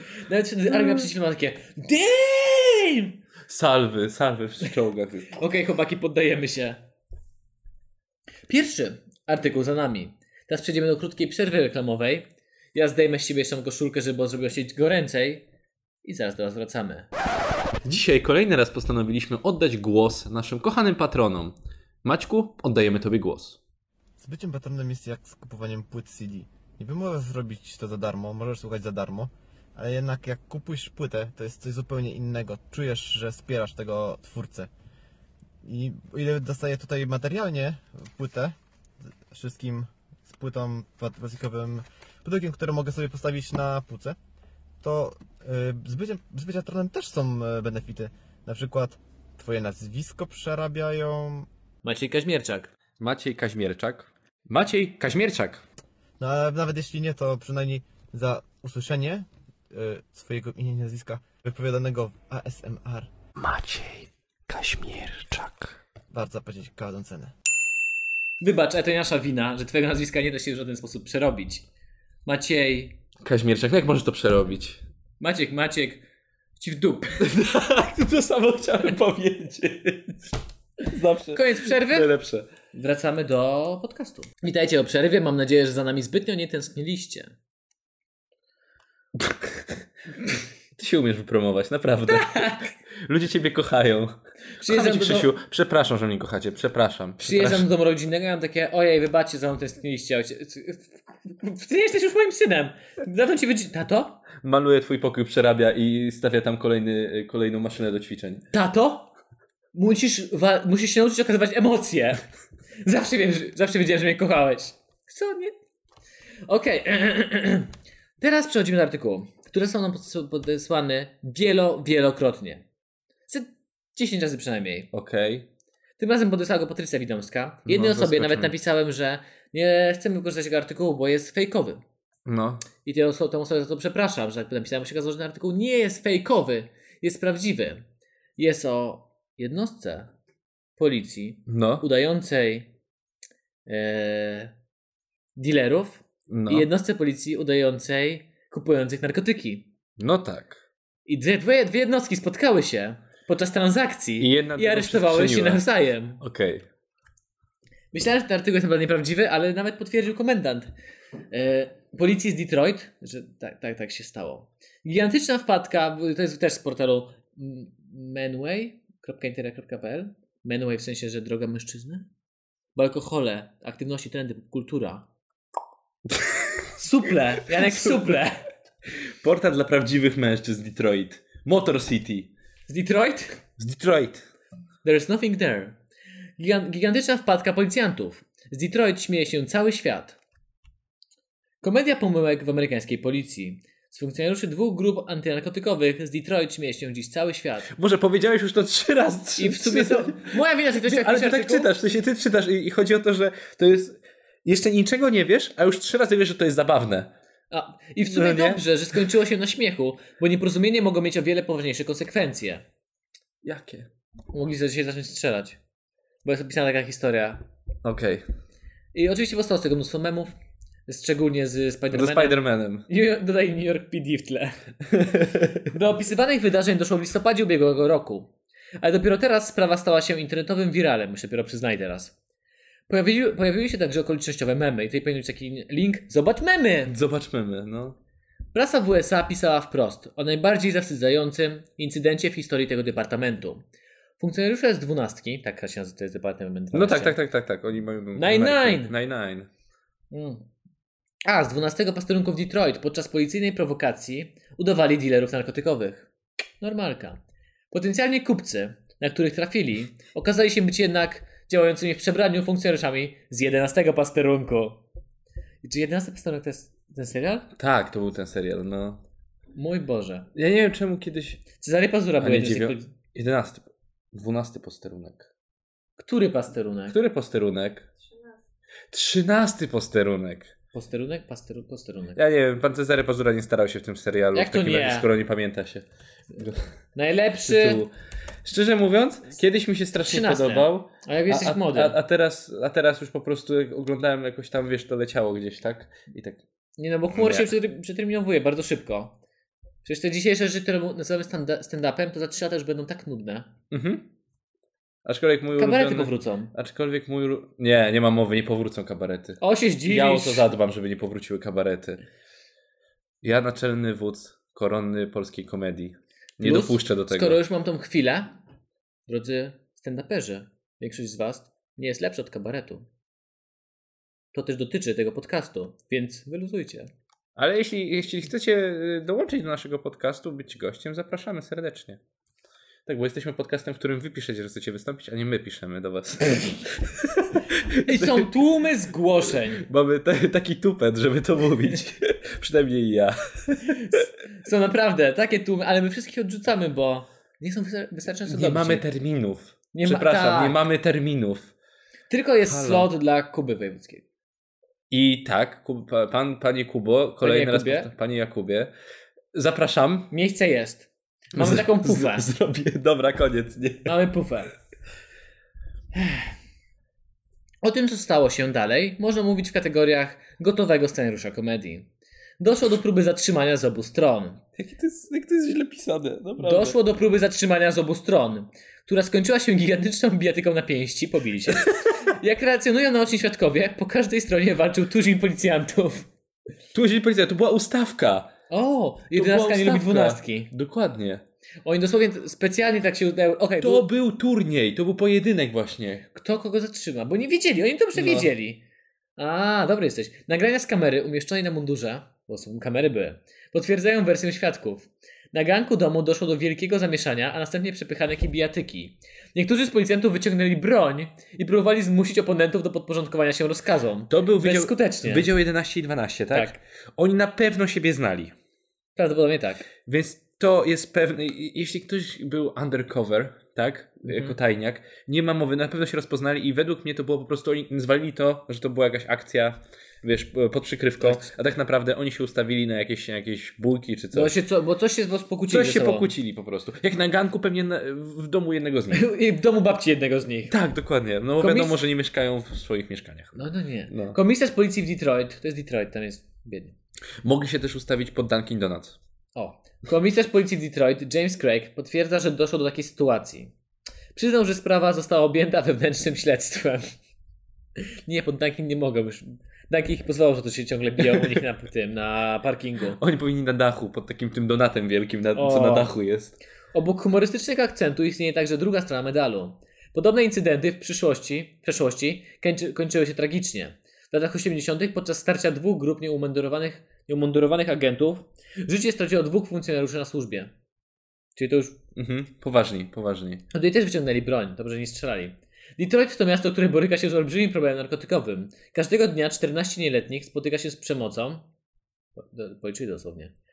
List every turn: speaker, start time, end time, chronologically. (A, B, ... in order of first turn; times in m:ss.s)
0:00.2-0:03.2 A
0:03.5-0:05.4 B
0:05.3-0:06.8 A
0:08.5-0:15.4 A
0:16.0-0:17.1 A
0:17.8-0:23.6 B
0:24.2-0:34.7 C
0:35.6-0:38.6 C
0:39.3-0:44.2 C
0:44.8-0:51.5 C
0:51.8-0:52.7 A
0:53.0-0:55.6 B
0:56.2-1:03.1 C
1:03.4-1:05.8 B
1:06.1-1:07.3 C
1:08.4-1:11.6 A
1:12.2-1:13.0 A
1:13.2-1:14.8 B
1:15.2-1:16.0 A
1:16.6-1:17.2 A
1:17.2-1:22.5 B
1:21.3-1:22.1 A
1:22.7-1:27.3 A
1:29.2-1:29.7 B
1:30.8-1:37.7 B
1:32.1-1:32.6 A
1:34.6-1:35.3 A
1:37.2-1:44.2 A
1:44.4-1:48.4 B
1:48.5-1:49.1 A
1:49.7-1:52.2 A
1:52.8-1:55.5 A
1:56.5-2:02.6 A
2:03.3-2:04.9 A
2:04.9-2:05.4 B
2:06.0-2:11.8 A
2:07.7-2:08.5 B
2:12.2-2:12.6 B
2:12.8-2:17.8 A
2:18.4-2:20.1 A
2:20.8-2:22.7 A
2:21.5-2:21.8 B
2:23.7-2:24.5 A
2:25.4-2:29.7 A
2:26.3-2:26.7 B
2:30.0-2:30.6 B
2:31.0-2:36.2 A
2:34.2-2:35.6 B
2:36.2-2:36.6 B
2:37.9-2:40.7 A
2:41.3-2:52.0 A
2:52.7-2:55.0 A
2:56.2-2:56.5 B
2:56.8-2:58.4 A
2:57.5-2:58.2 B
2:59.2-3:02.3 B
3:02.7-3:03.4 A
3:03.6-3:04.2 B
3:04.8-3:05.8 A
3:06.4-3:10.2 A
3:11.6-3:17.7 A
3:17.7-3:27.1 B
3:19.4-3:21.7 A
3:27.5-3:32.6 A
3:28.1-3:28.6 B
3:33.4-3:33.9 B
3:34.3-3:35.6 A
3:36.2-3:37.4 A
3:37.8-3:38.2 B
3:38.9-3:40.3 A
3:40.9-3:44.6 A
3:41.9-3:42.8 B
3:44.9-3:45.6 B
3:45.7-3:52.1 A
3:52.9-3:56.9 A
3:56.9-3:58.0 B
3:58.5-4:03.6 A
4:04.2-4:07.2 A
4:06.7-4:09.5 B
4:08.2-4:08.9 A
4:10.1-4:10.4 A
4:11.2-4:16.1 A
4:16.6-4:17.2 A
4:17.7-4:24.8 A
4:25.6-4:27.5 A
4:27.6-4:29.0 B
4:29.6-4:30.3 A
4:30.3-4:31.4 B
4:31.6-4:32.9 A
4:32.2-4:35.3 B
4:36.0-4:37.0 A
4:36.9-4:37.9 B
4:38.9-4:40.5 B
4:40.7-4:42.2 A
4:42.2-4:46.6 B
4:44.3-4:45.1 A
4:46.9-4:47.8 A
4:47.4-4:47.9 B
4:48.4-4:56.4 B
4:50.0-4:52.0 A
4:56.8-4:59.2 A
4:57.1-4:57.5 B
4:59.8-5:03.5 A
5:03.7-5:04.0 B
5:05.0-5:12.0 B
5:05.6-5:06.5 A
5:09.4-5:10.5 A
5:13.2-5:17.4 B
5:16.4-5:18.4 A
5:19.1-5:22.9 A
5:24.3-5:26.9 A
5:27.4-5:32.0 B
5:32.8-5:38.4 B
5:37.8-5:39.6 A
5:39.4-5:44.0 B
5:43.7-5:48.8 A
5:48.3-5:51.5 B
5:49.7-5:50.6 A
5:52.1-5:54.0 A
5:52.4-5:52.9 B
5:54.9-5:58.7 B
5:57.2-5:57.9 A
5:59.3-6:00.1 B
6:00.1-6:02.3 A
6:01.3-6:03.9 B
6:03.8-6:04.5 A
6:06.0-6:06.3 A
6:07.6-6:14.4 A
6:14.6-6:16.8 B
6:16.4-6:26.1 A
6:26.7-6:28.3 B
6:28.5-6:30.5 A
6:29.1-6:31.2 B
6:31.6-6:33.8 A
6:33.6-6:36.1 B
6:36.1-6:38.6 A
6:37.9-6:38.3 B
6:39.2-6:55.3 A
6:54.1-6:58.3 B
6:56.3-6:56.6 A
6:59.0-6:59.7 A
6:59.8-7:14.3 B
7:04.0-7:04.4 A
7:11.0-7:11.3 A
7:14.1-7:16.1 A
7:15.5-7:19.1 B
7:18.9-7:20.6 A
7:20.5-7:24.2 B
7:21.4-7:21.8 A
7:23.4-7:26.8 A
7:27.2-7:29.0 B
7:29.3-7:33.5 A
7:34.1-7:36.9 A
7:37.8-7:43.0 A
7:41.0-7:41.4 B
7:43.0-7:46.4 B
7:45.3-7:45.9 A
7:46.7-8:00.5 A
8:01.4-8:01.8 A
8:02.0-8:03.4 B
8:03.5-8:11.5 A
8:12.2-8:13.3 A